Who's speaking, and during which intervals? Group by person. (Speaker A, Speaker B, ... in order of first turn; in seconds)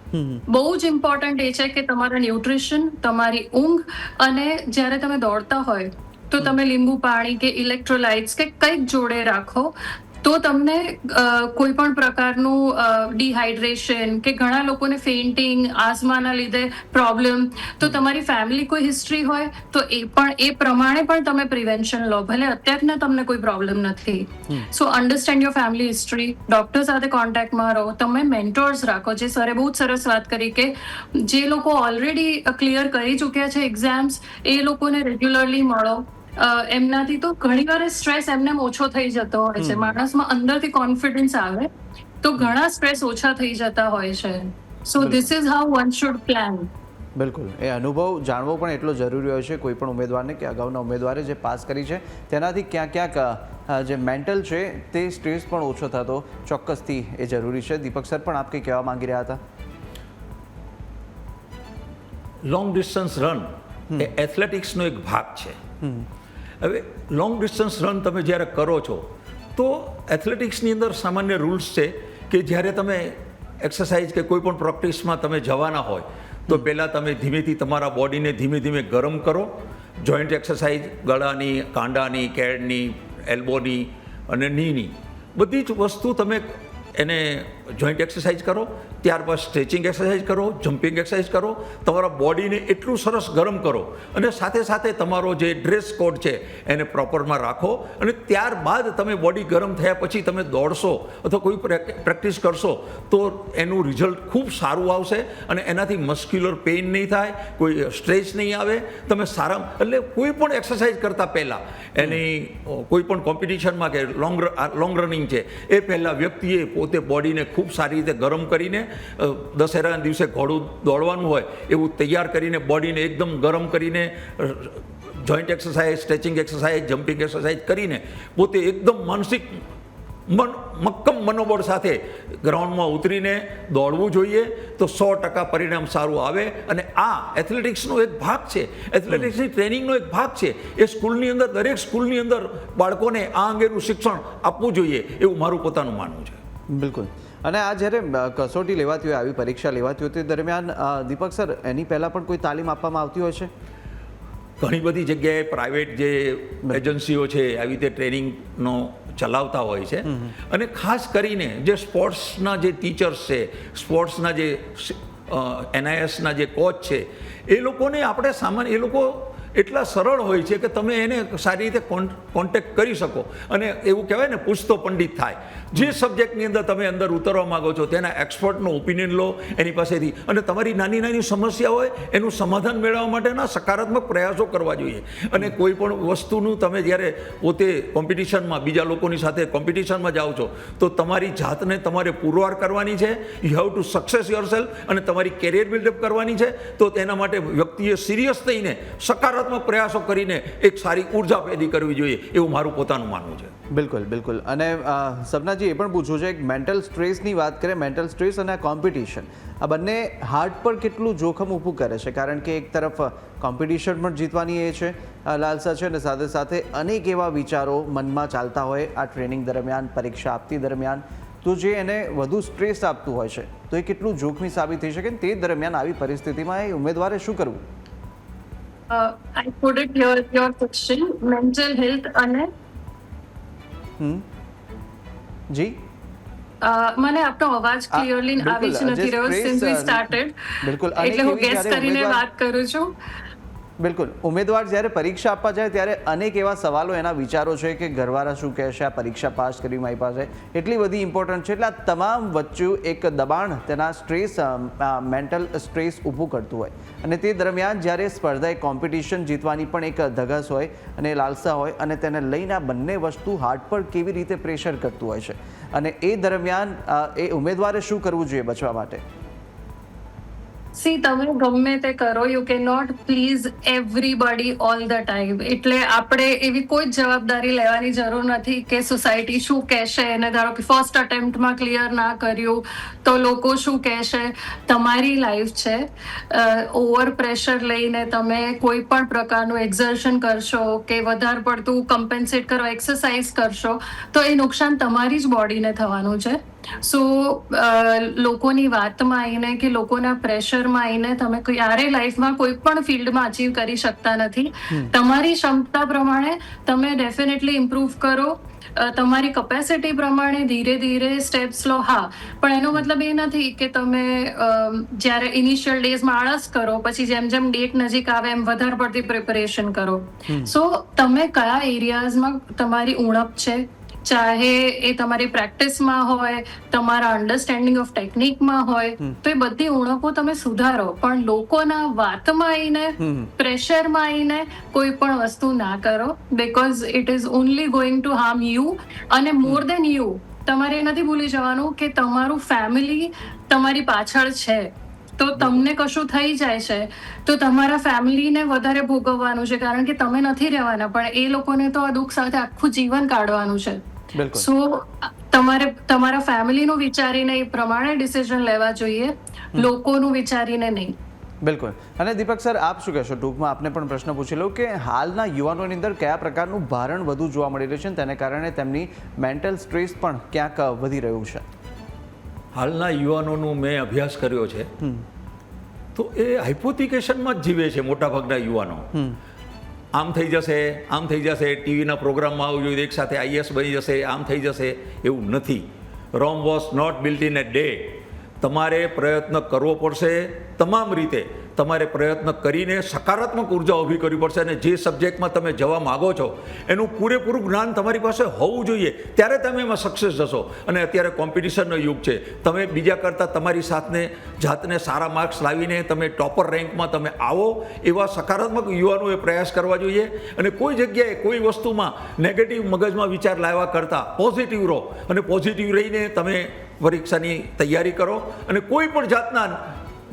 Speaker A: 0.1-0.4, 39.6-40.0, 45.0-45.3, 47.1-59.4, 65.8-66.1, 146.7-153.5, 160.1-160.3, 203.7-227.6, 234.0-234.2, 235.5-235.8, 237.9-242.2, 243.8-269.0, 320.3-320.5, 333.0-333.3, 345.4-345.6, 354.1-354.5, 361.4-371.4, 374.8-375.1, 378.9-379.2
Speaker B: 0.5-41.7, 42.2-46.7, 228.9-232.5, 236.6-242.9, 270.8-353.8, 354.3-361.0
Speaker C: 62.4-65.6, 66.6-129.6, 130.3-146.4, 154.6-203.5, 372.5-374.7, 375.9-378.9, 379.9-419.7